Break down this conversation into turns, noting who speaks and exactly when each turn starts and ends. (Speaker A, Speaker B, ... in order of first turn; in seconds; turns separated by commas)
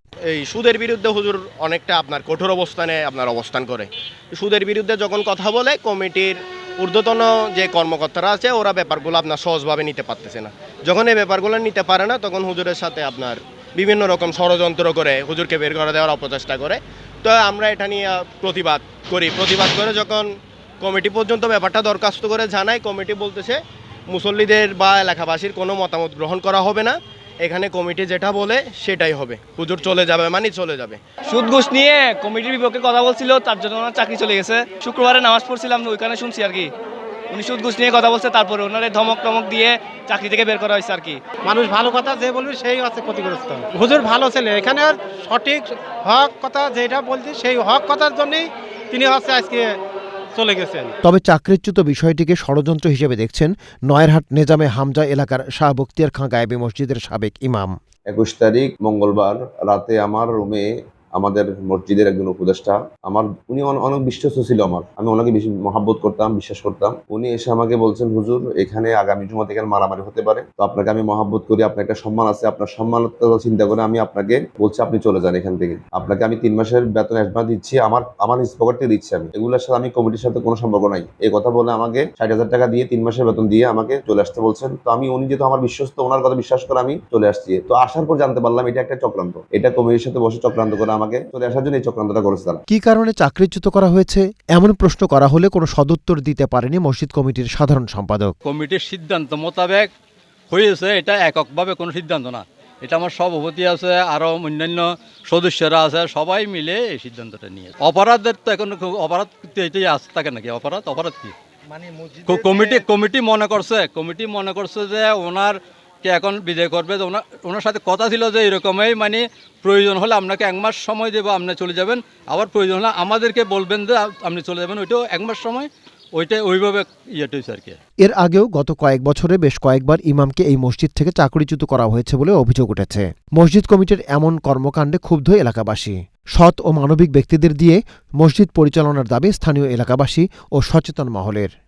Speaker A: 0.3-20.3, Speaker A: 20.8-31.0, Speaker B: 31.3-36.7, Speaker B: 37.3-41.2, Speaker C: 41.4-49.8, Speaker C: 50.3-50.9, Speaker D: 51.0-57.7, Speaker E: 58.1-92.6, Speaker D: 92.7-98.3, Speaker F: 98.4-99.9, Speaker F: 100.5-111.3, Speaker C: 111.8-112.8, Speaker F: 112.2-127.8, Speaker D: 128.0-141.5